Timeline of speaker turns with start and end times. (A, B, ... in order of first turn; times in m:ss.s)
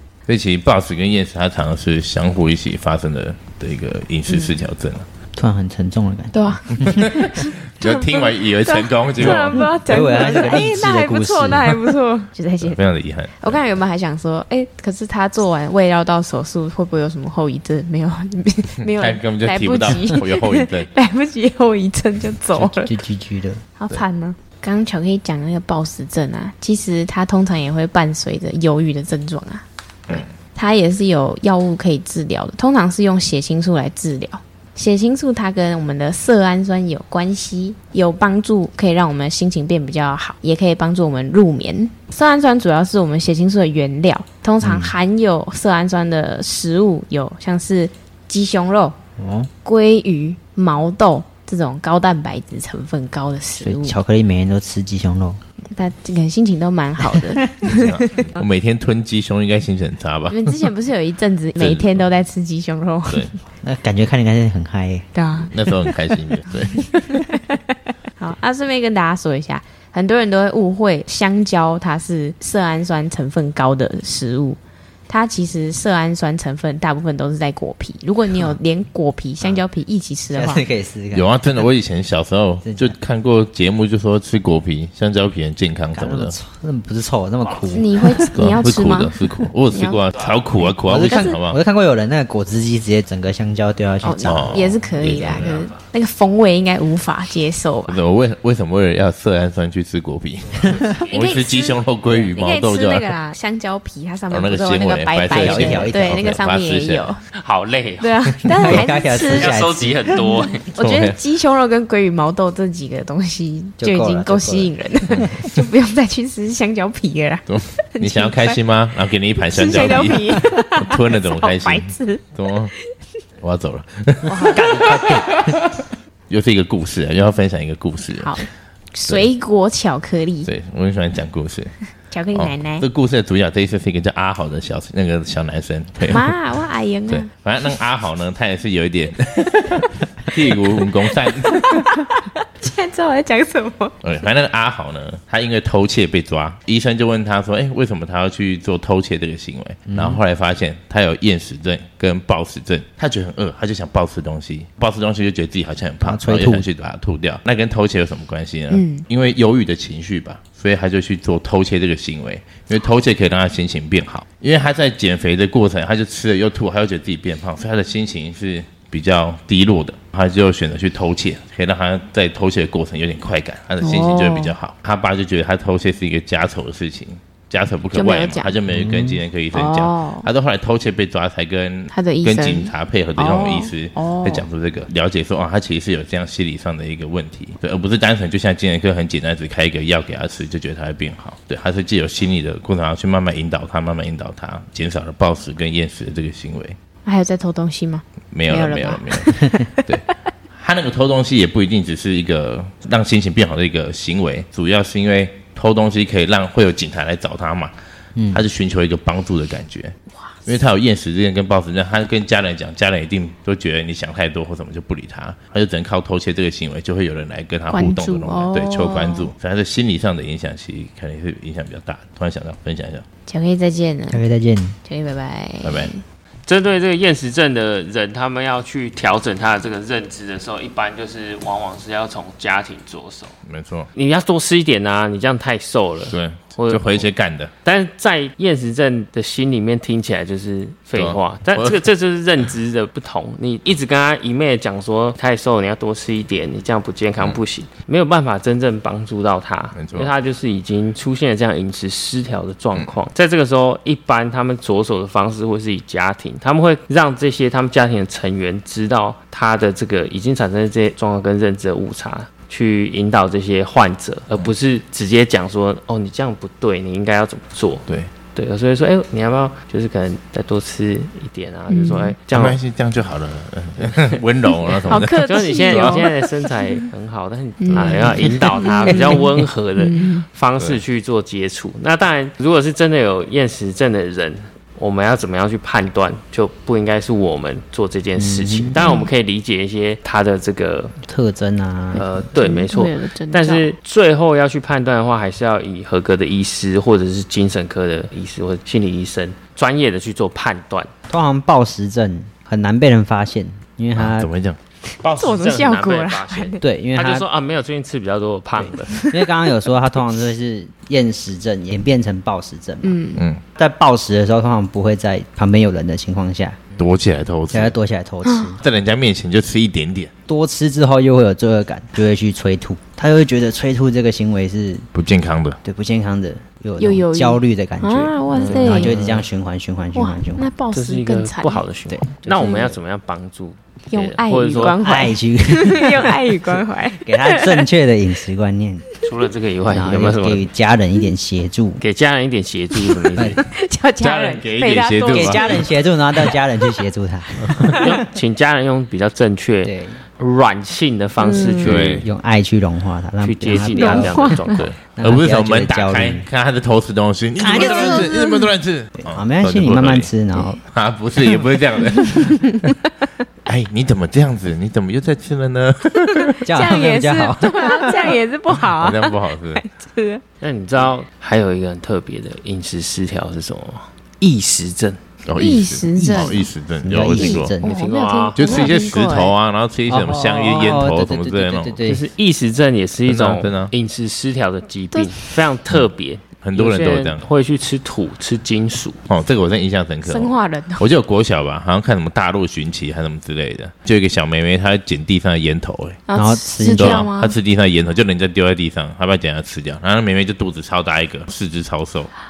0:00.3-0:05.1 A
0:04.3-0:04.5 B
0:05.4-0:07.2 C
0:06.3-0:12.8 B
0:06.8-0:09.7 A
0:09.2-0:11.9 C
0:12.6-0:13.6 A
0:13.4-0:22.9 B
0:18.8-0:20.9 A
0:22.6-0:23.6 C
0:23.8-0:49.0 B
0:44.6-0:44.9 C
0:49.2-0:49.5 C
0:49.6-0:54.0 B
0:53.6-0:55.4 C
0:55.7-0:58.4 B
0:57.6-1:00.6 A
1:00.3-1:03.4 B
1:01.6-1:02.0 A
1:03.6-1:05.1 C
1:05.1-1:05.5 B
1:05.5-1:07.0 A
1:06.9-1:07.6 B
1:08.2-1:20.6 B
1:20.3-1:21.3 C
1:21.1-1:26.3 A
1:22.6-1:23.0 C
1:25.9-1:28.4 C
1:27.7-1:29.1 B
1:28.3-1:31.6 A
1:29.7-1:30.0 B
1:30.6-1:31.4 B
1:30.8-1:34.8 C
1:34.0-1:38.0 B
1:34.2-1:35.5 A
1:35.2-1:35.8 D
1:37.9-1:43.1 A
1:40.6-1:40.9 C
1:41.1-1:41.8 B
1:42.3-1:47.2 B
1:44.3-1:47.1 A
1:45.3-1:46.3 C
1:47.3-1:48.3 D
1:48.0-1:49.6 B
1:48.5-1:50.2 C
1:49.3-1:50.7 D
1:50.1-1:58.6 B
1:50.8-1:51.2 A
1:53.8-1:55.3 C
1:57.5-2:02.7 A
1:59.5-2:02.3 B
2:03.4-2:05.5 A
2:04.2-2:05.0 B
2:04.4-2:05.6 C
2:06.3-2:08.5 A
2:08.2-2:10.5 B
2:10.4-2:11.7 A
2:12.1-2:12.8 B
2:12.3-2:16.3 A
2:16.1-2:17.3 B
2:17.1-2:21.9 A
2:21.4-2:24.0 B
2:24.0-3:16.8 A
2:29.9-2:30.2 C
2:36.0-2:36.7 C
2:38.7-2:39.0 B
2:53.8-2:54.5 B
2:57.9-2:58.5 B
2:58.7-2:59.2 C
2:59.5-3:00.3 B
3:01.9-3:04.4 B
3:17.0-3:19.8 B
3:18.3-3:27.7 A
3:28.2-3:28.4 C
3:28.3-3:29.9 A
3:30.4-3:43.0 A
3:37.7-3:39.3 B
3:43.3-3:44.2 B
3:44.1-3:44.8 C
3:44.8-3:46.0 B
3:45.6-3:45.9 A
3:46.5-3:53.4 D
3:53.5-3:53.9 A
3:53.9-3:57.0 D
3:56.1-3:57.5 A
3:57.6-4:32.6 D
4:01.0-4:01.8 A
4:09.7-4:10.1 A
4:31.7-4:32.1 B
4:32.3-4:36.0 A
4:33.9-4:34.2 D
4:34.9-4:36.1 B
4:35.2-4:51.0 D
4:37.6-4:39.3 B
4:37.7-4:38.2 A
4:38.9-4:39.2 C
4:39.8-4:40.2 B
4:48.2-4:48.8 C
4:48.8-4:49.1 B
4:51.1-4:52.0 C
4:51.9-5:00.9 D
4:52.4-4:53.7 B
5:01.1-5:04.3 C
5:04.0-5:04.6 A
5:05.0-5:08.9 D
5:05.1-5:06.6 B
5:06.6-5:07.2 C
5:08.6-5:13.0 C
5:08.9-5:09.3 B
5:12.8-5:13.2 B
5:13.2-5:13.4 A
5:13.6-5:16.6 C
5:16.8-5:17.7 A
5:17.5-5:18.6 C
5:18.2-5:18.5 B
5:18.6-5:20.1 A
5:20.3-5:24.9 C
5:24.9-5:25.6 A
5:25.6-5:30.5 C
5:26.8-5:28.9 B
5:28.3-5:29.2 D
5:29.9-5:31.6 B
5:30.7-5:34.8 D
5:31.9-5:32.4 C
5:32.3-5:32.8 B
5:33.9-5:37.6 B
5:34.8-5:36.2 C
5:37.0-5:38.8 C
5:39.0-5:40.4 D
5:39.6-5:41.8 C
5:41.8-5:43.4 D
5:43.1-5:43.4 C
5:43.5-5:45.6 B
5:44.0-5:45.4 A
5:45.1-5:48.0 C
5:47.7-5:52.0 D
5:49.6-5:50.0 C
5:51.2-5:51.7 B
5:51.6-5:54.4 C
5:51.6-5:52.0 A
5:53.2-5:54.7 D
5:53.7-5:54.6 B
5:54.5-6:00.1 A
5:55.0-5:56.3 C
5:57.4-5:58.1 C
5:57.5-5:58.5 B
5:59.0-6:00.6 C
6:00.6-6:02.5 A
6:02.0-6:02.7 B
6:03.4-6:06.4 A
6:06.3-6:10.2 B
6:06.4-6:08.1 C
6:08.7-6:09.6 A
6:10.4-6:15.0 D
6:15.2-6:17.5 A
6:15.4-6:16.5 B
6:16.0-6:17.8 C
6:17.1-6:19.3 B
6:17.6-6:18.7 D
6:18.4-6:21.8 A
6:19.9-6:22.1 C
6:21.8-6:29.0 D
6:23.1-6:23.7 A
6:24.9-6:25.2 B
6:26.4-6:27.2 A
6:29.1-6:36.0 A
6:30.0-6:30.8 B
6:36.1-6:37.4 B
6:36.2-6:37.1 C
6:36.6-6:42.1 A